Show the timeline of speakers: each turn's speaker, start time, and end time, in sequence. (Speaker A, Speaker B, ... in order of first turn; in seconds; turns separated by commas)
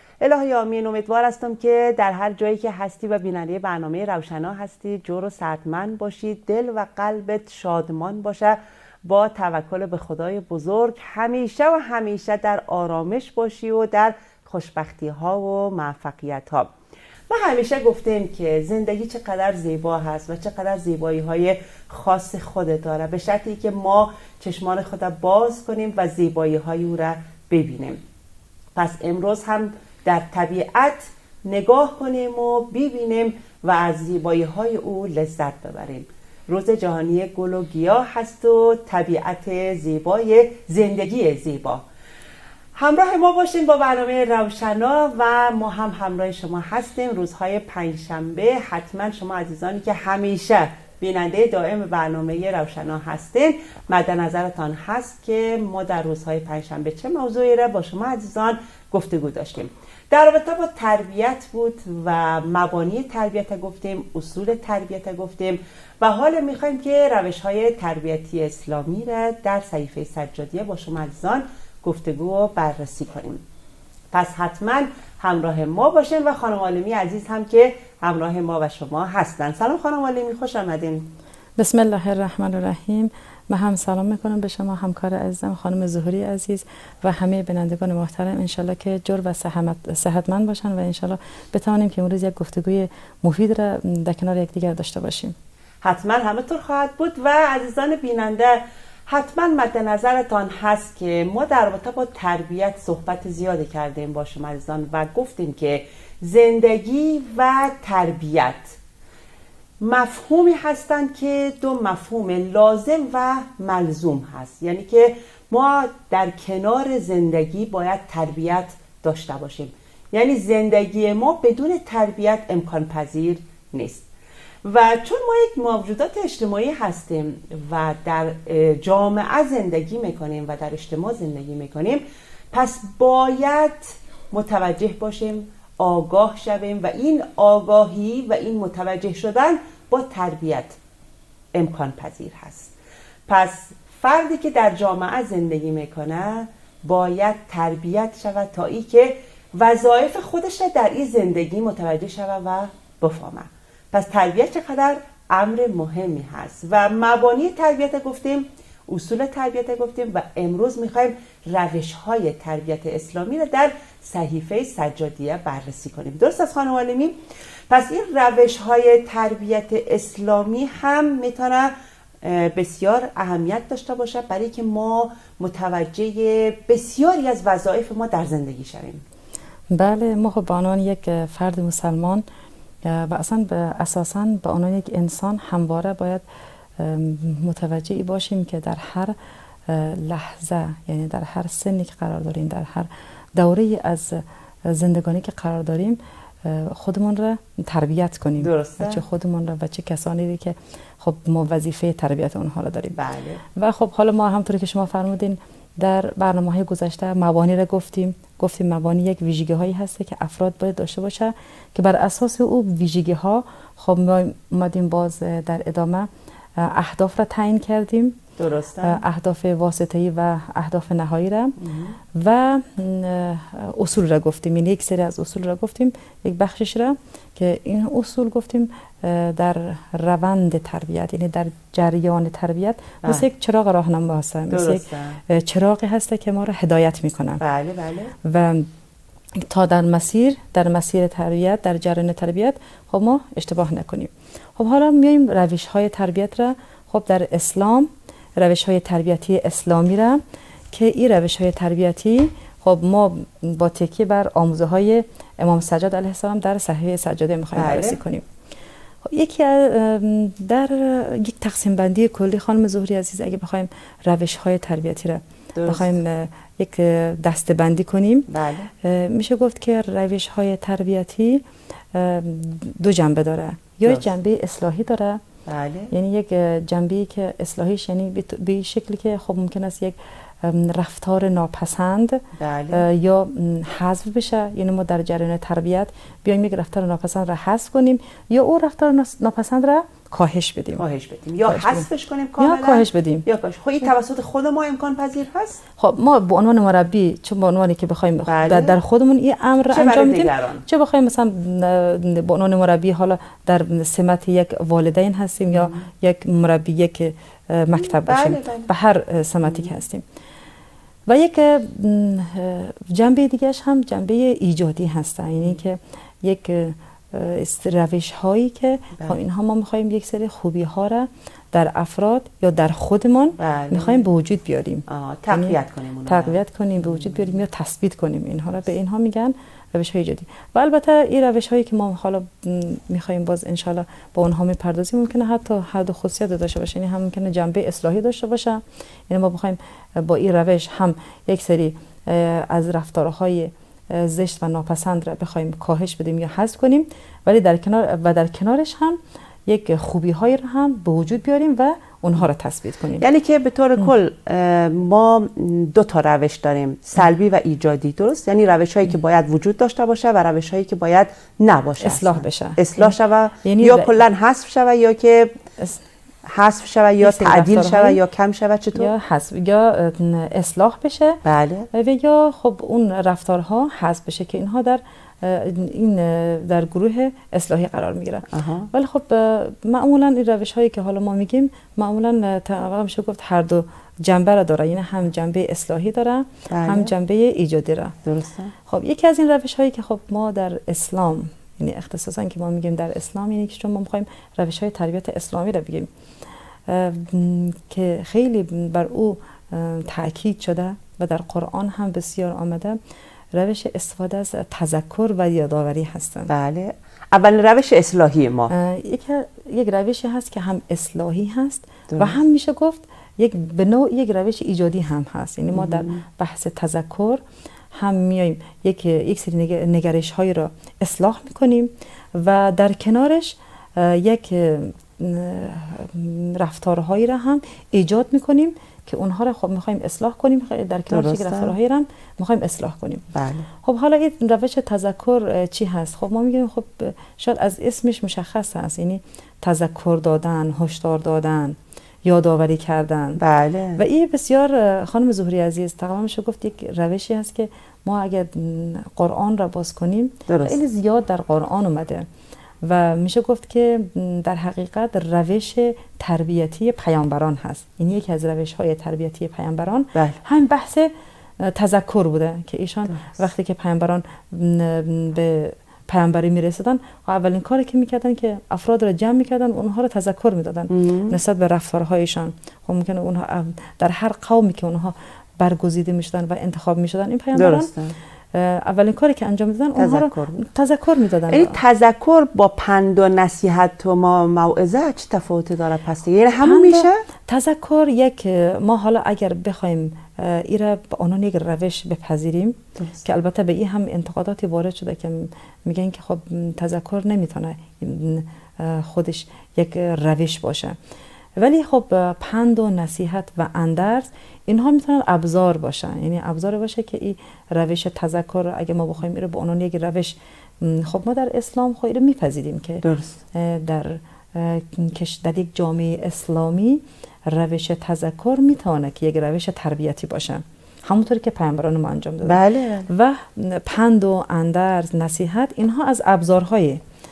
Speaker A: 0.2-16.7, Speaker A: 17.3-28.0, Speaker A: 28.8-41.8, Speaker A: 42.8-73.4, Speaker A: 74.1-81.1, Speaker B: 81.6-95.3, Speaker A: 95.8-108.8, Speaker A: 109.8-124.1, Speaker A: 124.6-140.8, Speaker A: 141.5-142.7, Speaker A: 143.3-167.2, Speaker A: 167.7-179.0, Speaker B: 179.7-182.2, Speaker B: 182.8-186.2, Speaker B: 186.8-189.2, Speaker B: 189.7-203.0, Speaker A: 198.4-199.0, Speaker A: 203.0-203.4, Speaker B: 203.6-218.2, Speaker A: 218.4-219.0, Speaker B: 218.8-221.6, Speaker A: 221.6-221.9, Speaker B: 222.1-237.4, Speaker A: 234.5-235.2, Speaker A: 237.4-238.2, Speaker B: 238.2-238.7, Speaker B: 239.4-250.2, Speaker B: 250.7-258.2, Speaker A: 257.6-258.0, Speaker B: 259.1-268.3, Speaker A: 265.6-266.0, Speaker A: 268.3-268.7, Speaker B: 268.8-275.2, Speaker A: 275.5-275.9, Speaker B: 275.9-290.8, Speaker A: 282.4-282.8, Speaker A: 290.8-295.6, Speaker B: 291.5-291.9, Speaker B: 292.4-293.3, Speaker B: 295.8-310.0, Speaker A: 298.3-298.8, Speaker A: 299.7-300.6, Speaker A: 305.5-305.8, Speaker A: 307.8-308.7, Speaker B: 311.1-353.1, Speaker A: 323.4-324.0, Speaker A: 324.9-326.4, Speaker A: 353.0-365.4, Speaker B: 361.8-363.9, Speaker A: 366.3-368.9, Speaker B: 367.0-368.0, Speaker B: 368.8-371.2, Speaker A: 371.2-371.7, Speaker B: 371.7-388.0, Speaker A: 378.3-378.7, Speaker A: 386.5-386.9, Speaker A: 388.1-388.5, Speaker B: 388.7-395.9, Speaker B: 396.7-402.8, Speaker B: 403.3-406.3, Speaker A: 406.3-408.5, Speaker B: 408.5-417.2, Speaker A: 411.9-412.2, Speaker A: 415.5-416.0, Speaker B: 417.8-433.1, Speaker A: 430.9-431.5, Speaker A: 433.1-433.5, Speaker B: 433.6-443.2, Speaker A: 443.2-443.8, Speaker B: 443.8-452.1, Speaker A: 450.3-450.6, Speaker B: 452.6-477.7, Speaker A: 470.7-471.2, Speaker A: 477.4-477.9, Speaker B: 478.3-481.6, Speaker A: 479.8-480.4, Speaker A: 481.3-487.0, Speaker B: 486.4-500.8, Speaker B: 501.4-526.8, Speaker A: 512.8-513.1, Speaker A: 522.2-522.9